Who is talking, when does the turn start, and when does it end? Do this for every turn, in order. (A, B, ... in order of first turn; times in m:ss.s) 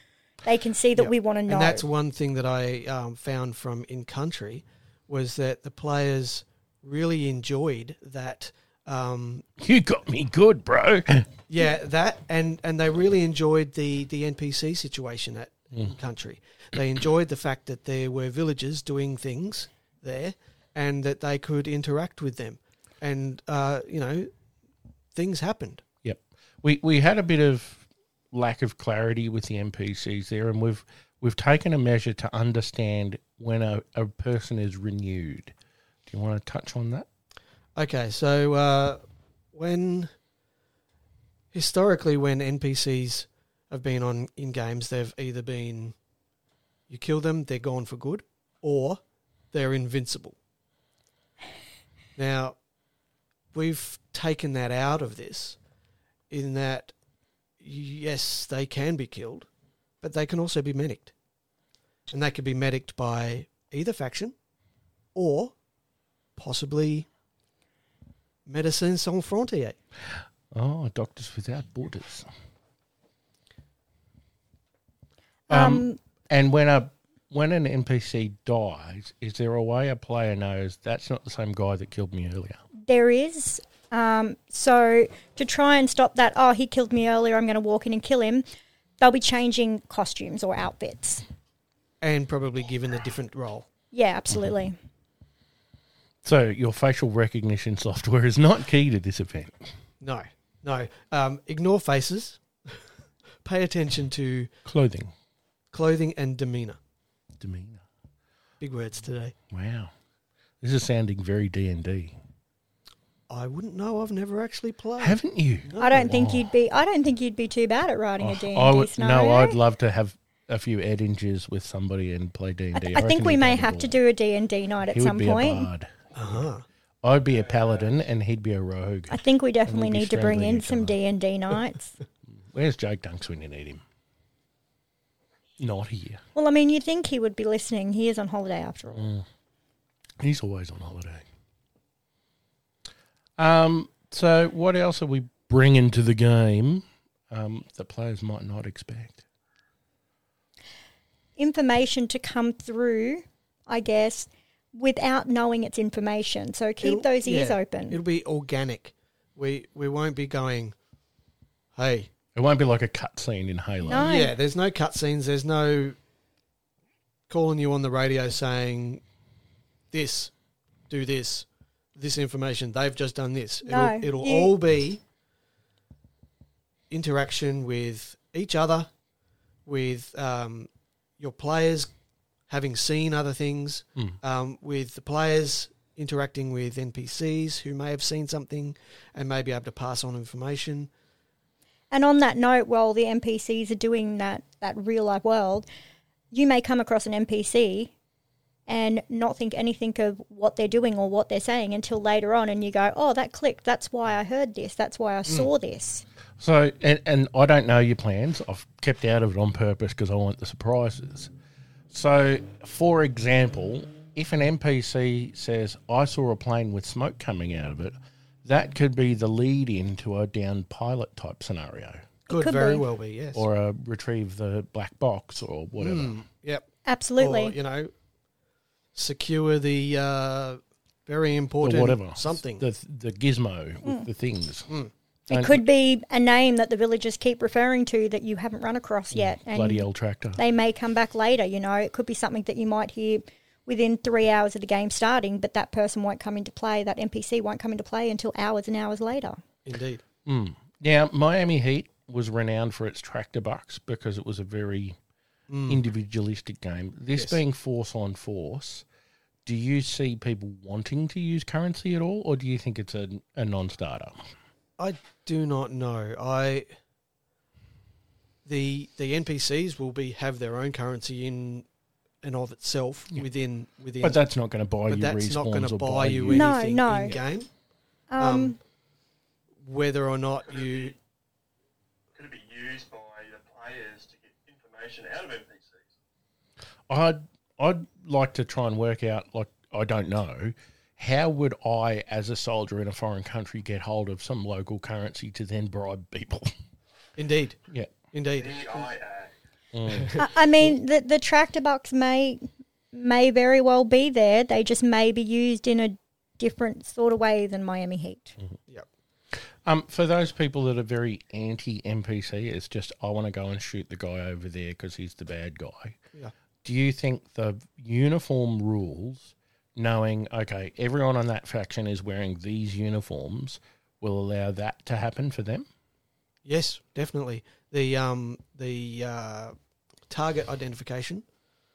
0:00.4-0:01.8 A
0:01.0-0:09.4 B
0:09.6-0:11.3 C
0:11.5-0:24.3 B
0:25.1-0:25.8 B
0:26.0-0:35.5 C
0:36.1-0:37.1 C
0:37.7-0:39.0 B
0:39.5-0:40.1 B
0:41.5-0:45.9 B
0:46.9-0:49.0 B
0:49.5-0:50.4 B
0:52.2-0:52.6 B
0:53.5-0:55.6 B
0:56.3-0:56.9 B
0:57.6-0:59.5 B
1:00.0-1:01.1 B
1:02.1-1:04.3 B
1:05.1-1:05.5 B
1:06.4-1:07.1 B
1:08.4-1:09.8 B
1:10.5-1:12.3 C
1:15.5-1:16.0 A
1:15.5-1:22.6 C
1:22.8-1:28.4 A
1:29.0-1:31.2 A
1:32.0-1:33.7 B
1:33.9-1:34.8 A
1:36.2-1:39.7 C
1:40.0-1:42.8 B
1:43.4-1:44.5 B
1:44.6-1:45.1 C
1:45.7-1:46.8 B
1:47.4-1:47.8 C
1:48.6-1:49.3 B
1:49.5-1:49.9 C
1:50.6-1:52.2 C
1:53.3-1:56.3 B
1:55.0-1:56.5 C
1:55.8-1:59.6 A
1:58.2-2:04.0 C
2:02.7-2:05.7 A
2:04.9-2:05.9 C
2:06.1-2:06.6 B
2:07.0-2:11.0 C
2:09.1-2:12.0 A
2:12.5-2:13.8 C
2:15.6-2:16.2 C
2:16.4-2:19.1 A
2:18.9-2:19.2 C
2:20.2-2:21.2 C
2:23.4-2:29.2 C
2:31.4-2:38.0 A
2:36.8-2:40.8 B
2:41.7-2:42.1 B
2:42.3-2:44.1 C
2:43.8-2:44.3 A
2:44.0-2:46.0 B
2:47.3-2:49.0 B
2:49.9-2:50.3 B
2:50.9-2:55.0 B
2:53.6-2:54.5 A
2:56.9-2:58.9 B
2:59.6-3:01.9 B
3:02.5-3:10.9 B
3:11.9-3:15.6 A
3:16.3-3:17.9 A
3:18.7-3:26.0 A
3:26.4-3:31.3 C
3:31.9-3:42.1 C
3:42.3-3:42.8 A
3:42.3-3:43.4 B
3:43.3-3:46.2 C
3:45.8-3:46.7 B
3:46.8-3:47.6 A
3:47.2-3:47.9 B
3:48.9-3:52.6 B
3:51.6-3:54.7 C
3:55.3-3:59.8 A
3:55.3-3:55.6 C
3:59.1-4:00.4 C
4:00.4-4:09.4 A
4:09.6-4:10.0 B
4:10.2-4:15.0 C
4:15.5-4:15.8 B
4:15.7-4:18.8 C
4:17.1-4:17.4 B
4:19.4-4:24.2 C
4:24.8-4:26.7 B
4:28.4-4:31.6 B
4:32.2-4:34.2 B
4:34.0-4:36.5 C
4:34.9-4:37.5 B
4:36.3-4:37.2 A
4:38.1-4:38.6 A
4:38.2-4:38.6 B
4:39.6-4:40.9 B
4:40.4-4:41.0 D
4:42.1-4:45.9 D
4:46.9-4:56.5 C
4:57.2-4:57.6 B
4:58.1-4:58.9 B
4:58.4-4:59.3 D
4:59.7-5:00.2 C
4:59.9-5:00.7 B
5:00.1-5:08.4 A
5:09.6-5:16.0 C
5:16.6-5:25.7 C
5:26.4-5:29.5 B
5:30.1-5:31.2 B